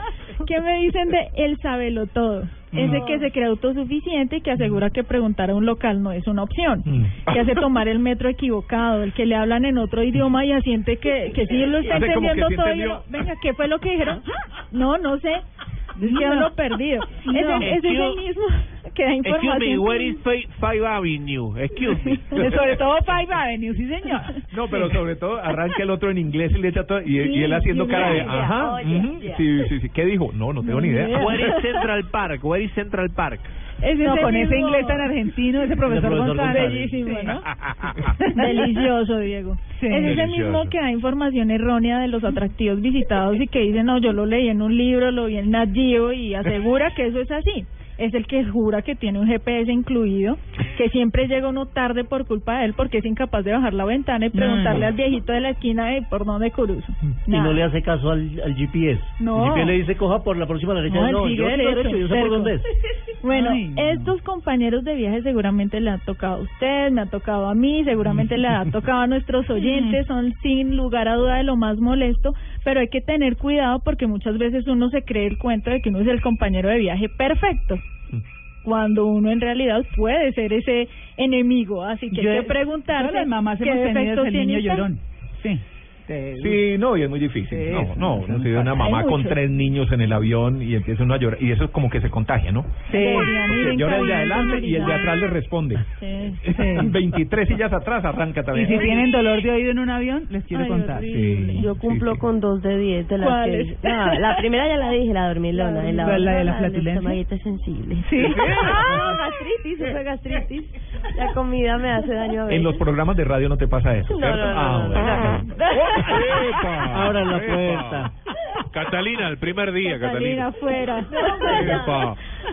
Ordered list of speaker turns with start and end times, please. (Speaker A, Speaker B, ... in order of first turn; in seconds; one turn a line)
Speaker A: 0.4-15.4
Speaker B: 2.7-3.0
Speaker B: 6.8-7.3
Speaker C: 7.3-7.6
Speaker B: 11.8-13.1
Speaker A: 16.0-20.2
Speaker D: 16.0-16.5
Speaker D: 17.2-17.7
Speaker C: 17.6-18.2
Speaker C: 19.2-22.6
Speaker D: 22.3-25.0
Speaker B: 24.5-31.6
Speaker A: 27.2-28.3
Speaker E: 27.9-29.4
Speaker C: 27.9-28.3
Speaker A: 30.6-31.6
Speaker D: 30.8-31.3
Speaker C: 31.1-33.5
Speaker D: 33.8-37.4
Speaker A: 33.9-35.1
Speaker F: 35.8-37.0
Speaker A: 36.5-37.4
Speaker C: 37.3-38.1
Speaker D: 38.1-38.8
Speaker A: 38.2-57.6
Speaker D: 39.7-40.2
Speaker C: 40.0-40.7
Speaker D: 54.3-54.9
Speaker F: 57.3-62.7
Speaker A: 59.2-59.8
Speaker A: 60.9-62.5
Speaker A: 63.2-77.8
Speaker D: 63.3-64.1
Speaker D: 69.6-70.0
Speaker A: 78.6-84.9
Speaker D: 82.1-86.6
Speaker B: 86.3-95.8
Speaker D: 87.4-89.1
Speaker A: 88.8-89.4
Speaker D: 92.8-93.6
Speaker A: 92.9-95.3
Speaker A: 96.0-96.4
Speaker D: 96.4-97.0
Speaker B: 96.4-99.0
Speaker D: 98.5-101.2
Speaker A: 100.5-101.7
Speaker E: 100.6-112.8
Speaker B: 101.1-102.2
Speaker A: 103.2-104.5
Speaker A: 105.5-106.4
Speaker D: 105.6-107.2
Speaker D: 108.0-108.7
Speaker B: 108.2-108.9
Speaker B: 112.5-116.3
Speaker E: 114.0-116.0
Speaker A: 115.6-116.4
Speaker C: 115.9-118.1
Speaker F: 116.8-118.1
Speaker C: 118.7-120.5
Speaker A: 119.8-121.8
Speaker D: 120.6-121.8
Speaker E: 121.0-122.2
Speaker C: 121.4-122.2